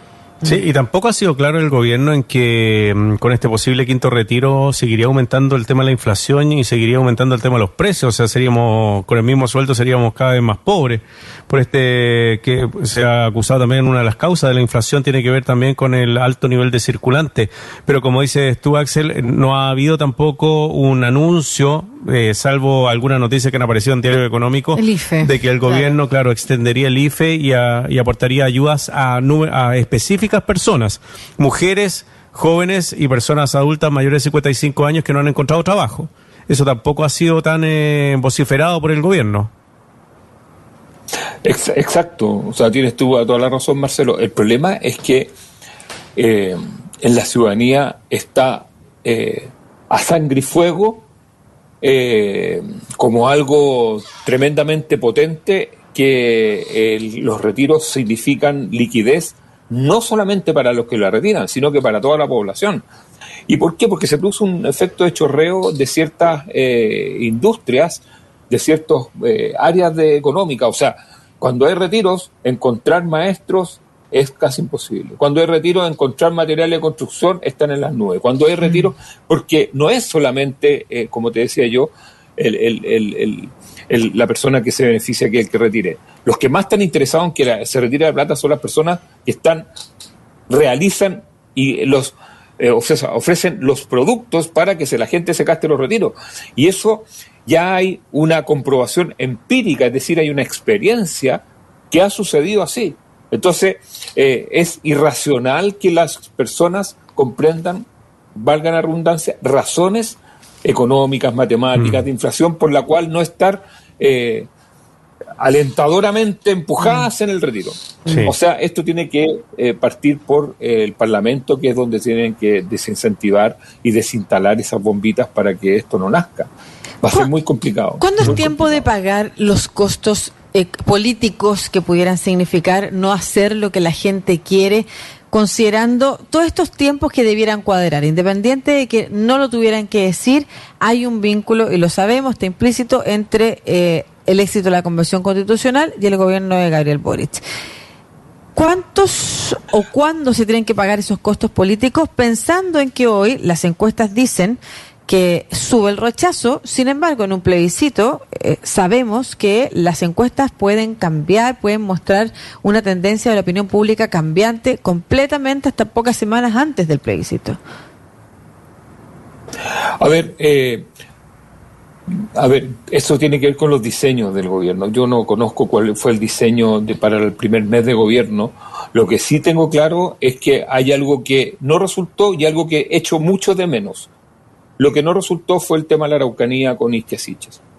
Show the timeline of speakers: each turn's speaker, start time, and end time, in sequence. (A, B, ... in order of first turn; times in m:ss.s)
0:00.4-0:39.5 A
0:24.7-0:25.9 B
0:41.4-0:45.3 C
0:46.2-0:51.1 C
0:51.8-1:02.8 C
1:03.5-1:29.6 C
1:30.5-1:54.5 C
1:51.8-1:52.0 A
1:55.4-2:06.5 C
1:58.1-1:58.3 A
2:07.0-2:08.9 C
2:08.0-2:27.4 B
2:28.6-2:47.6 B
2:49.7-2:50.9 C
2:52.1-3:04.1 C
3:04.8-3:07.6 C